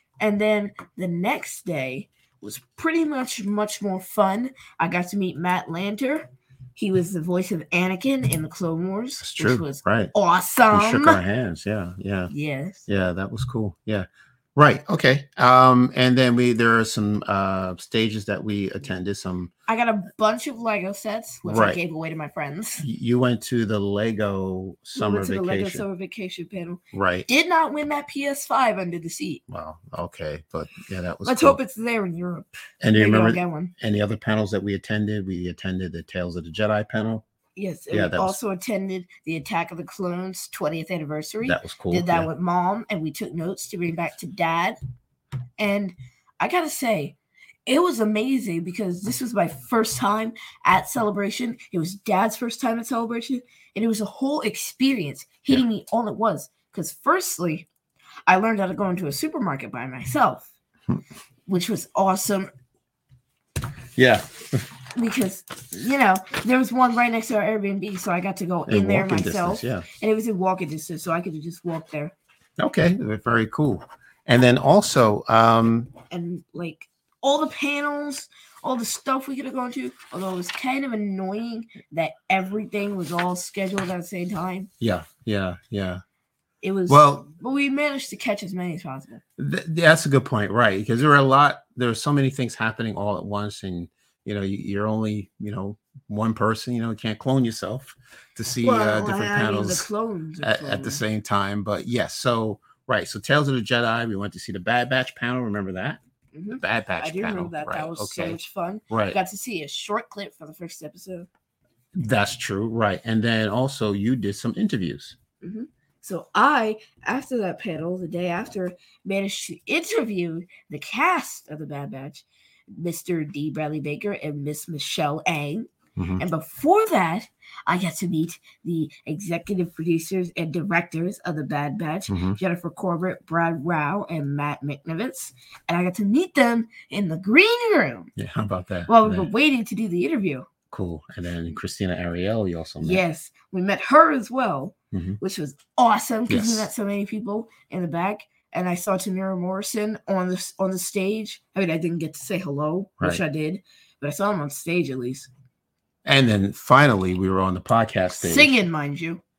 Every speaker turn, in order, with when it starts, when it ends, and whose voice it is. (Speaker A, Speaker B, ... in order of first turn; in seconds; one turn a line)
Speaker A: 0.2-11.2
Speaker B: 9.2-10.1
Speaker B: 10.7-12.3
Speaker A: 12.3-12.9
Speaker B: 12.9-19.5
Speaker A: 19.7-22.9
Speaker B: 21.4-21.8
Speaker B: 22.8-25.9
Speaker A: 24.9-29.4
Speaker B: 26.9-27.3
Speaker B: 29.5-31.6
Speaker A: 31.2-33.7
Speaker B: 32.8-37.2
Speaker A: 37.5-44.8
Speaker B: 37.9-38.4
Speaker B: 41.4-42.3
Speaker A: 45.6-57.7
Speaker A: 58.3-60.5
Speaker A: 61.5-62.5
Speaker B: 64.0-64.7
Speaker A: 65.0-72.1
Speaker B: 68.7-69.9
Speaker B: 72.6-75.9
Speaker A: 76.1-84.7
Speaker B: 84.8-86.0
Speaker A: 86.6-89.2
Speaker B: 86.9-87.3
Speaker B: 89.4-99.9
Speaker A: 98.6-101.0
Speaker B: 100.4-106.0
Speaker A: 106.3-111.3
Speaker B: 106.6-108.4
Speaker B: 108.9-109.2
Speaker B: 112.0-115.2
Speaker A: 115.4-138.1
Speaker B: 126.0-126.2
Speaker B: 132.1-132.4
Speaker B: 138.2-139.3
Speaker A: 138.9-140.5
Speaker B: 140.7-143.0
Speaker A: 142.8-155.3
Speaker B: 144.9-145.2
Speaker B: 146.3-146.7
Speaker B: 156.0-158.5
Speaker A: 158.2-159.2